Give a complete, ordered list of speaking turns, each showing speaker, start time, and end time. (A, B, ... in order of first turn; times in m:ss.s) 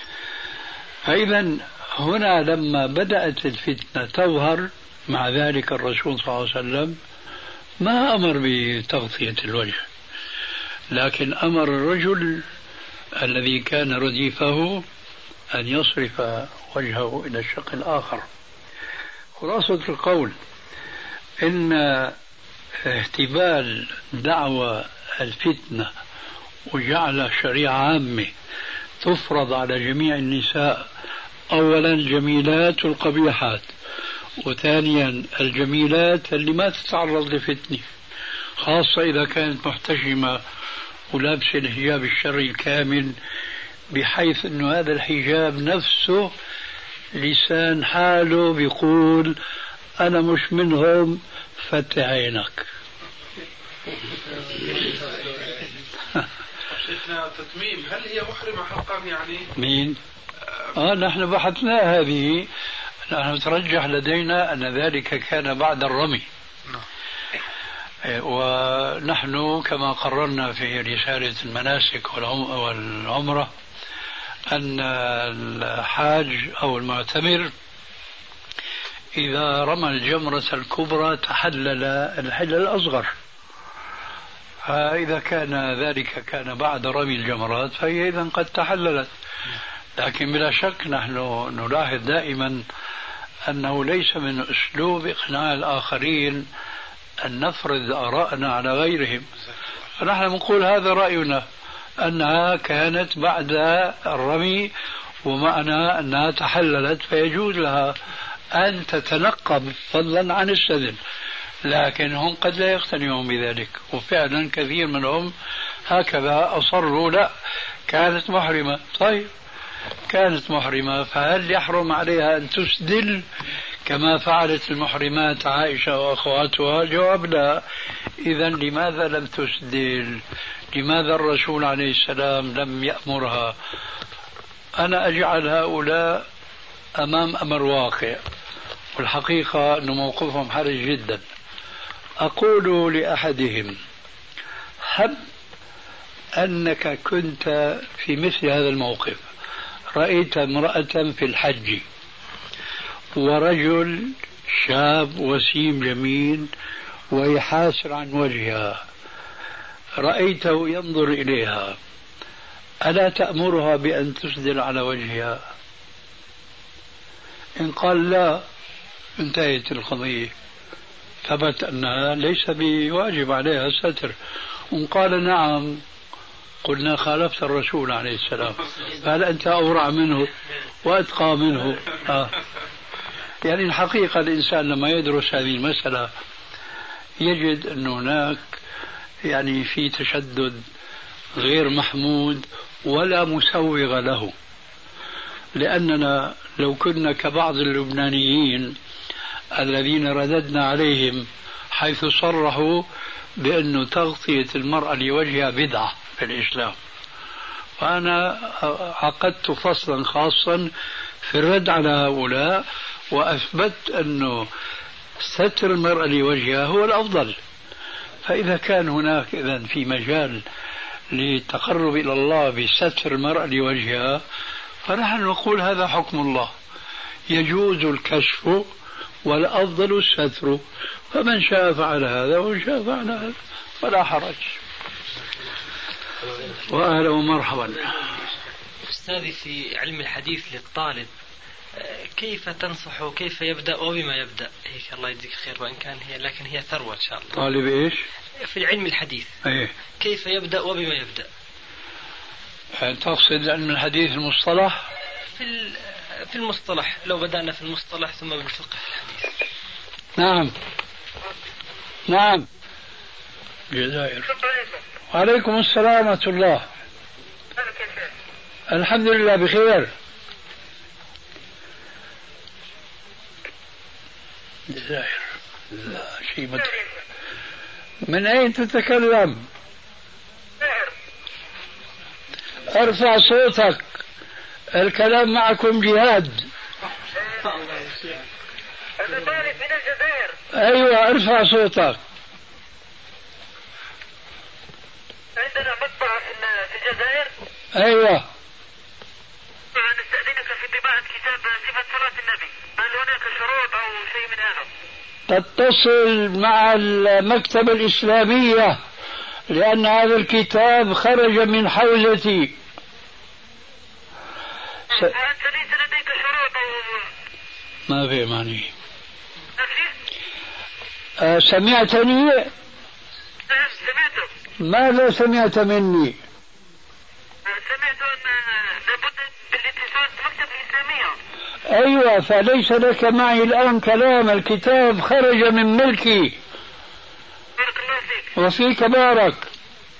0:01.0-0:07.0 A
0:07.8-0:09.8 A
0:10.9-0:12.4 A
0:13.2-0:14.8 A
0:15.5-0:18.2 A
0:19.4-0:20.3 A
0:21.4-0:22.2 A
0:22.8-0:25.9 A
0:26.7-0:28.3 A
0:29.0-0:30.8 A
0:31.5-0:33.7 A
0:34.4-0:37.8 A
0:38.6-0:40.4 A
0:41.1-0:43.2 A
0:43.9-0:46.3 A
0:47.1-0:49.3 A
0:50.0-0:52.6 A
0:56.7-0:59.5 B
0:59.6-1:00.0 A
1:00.8-1:02.5 A
1:03.1-1:06.2 A
1:08.0-1:13.5 A
1:14.5-1:17.5 A
1:19.2-1:23.1 A
1:24.6-1:29.1 A
1:30.0-1:32.6 A
1:33.4-1:36.5 A
1:37.2-1:39.3 A
1:40.0-1:41.4 A
1:42.0-1:44.7 A
1:45.2-1:48.0 A
1:48.5-1:51.0 A
1:51.6-1:55.3 A
1:55.9-1:57.3 A
1:57.9-1:59.3 A
2:00.1-2:03.2 A
2:03.8-2:07.6 A
2:08.2-2:10.2 A
2:10.7-2:13.5 A
2:14.8-2:16.2 A
2:17.0-2:18.2 A
2:19.0-2:21.2 A
2:22.2-2:23.8 A
2:24.8-2:25.2 A
2:26.4-2:29.3 A
2:29.9-2:31.8 A
2:33.2-2:36.5 A
2:37.1-2:38.8 A
2:40.0-2:41.8 A
2:42.8-2:45.4 A
2:47.6-2:48.4 A
2:49.2-2:50.3 A
2:51.2-2:54.1 A
2:54.7-2:55.8 A
2:56.6-3:00.3 A
3:00.8-3:02.3 A
3:03.4-3:06.1 A
3:07.2-3:08.4 A
3:09.2-3:10.6 A
3:11.4-3:14.3 A
3:15.6-3:18.8 A
3:19.5-3:22.8 A
3:23.4-3:26.8 A
3:27.8-3:30.7 A
3:31.2-3:34.5 A
3:35.2-3:37.4 A
3:38.2-3:40.4 A
3:41.1-3:44.2 A
3:44.8-3:46.5 A
3:47.3-3:48.7 A
3:49.2-3:54.5 A
3:56.7-3:57.9 A
3:58.9-4:01.1 C
4:01.8-4:07.4 C
4:07.3-4:08.0 A
4:08.4-4:09.3 C
4:09.4-4:09.7 A
4:10.0-4:11.3 C
4:12.8-4:14.8 A
4:15.4-4:19.2 C
4:20.2-4:20.5 A
4:22.1-4:22.5 A
4:23.7-4:24.3 A
4:24.4-4:24.7 D
4:25.1-4:26.6 A
4:27.6-4:28.1 D
4:28.7-4:29.9 A
4:34.7-4:36.7 A
4:38.0-4:39.4 A
4:40.6-4:40.9 D
4:42.7-4:43.8 A
4:44.7-4:46.5 A
4:49.0-4:50.3 D
4:50.5-4:52.0 A
4:55.4-4:57.3 D
4:57.7-4:58.2 A
4:59.7-5:04.6 D
5:05.3-5:08.8 A
5:09.5-5:12.6 A
5:14.9-5:17.1 D
5:17.9-5:18.7 A
5:19.6-5:19.9 D
5:21.2-5:22.5 A
5:23.5-5:24.3 D
5:24.6-5:26.2 A
5:27.4-5:31.1 D
5:31.7-5:36.4 A
5:37.6-5:38.3 D
5:38.3-5:39.5 A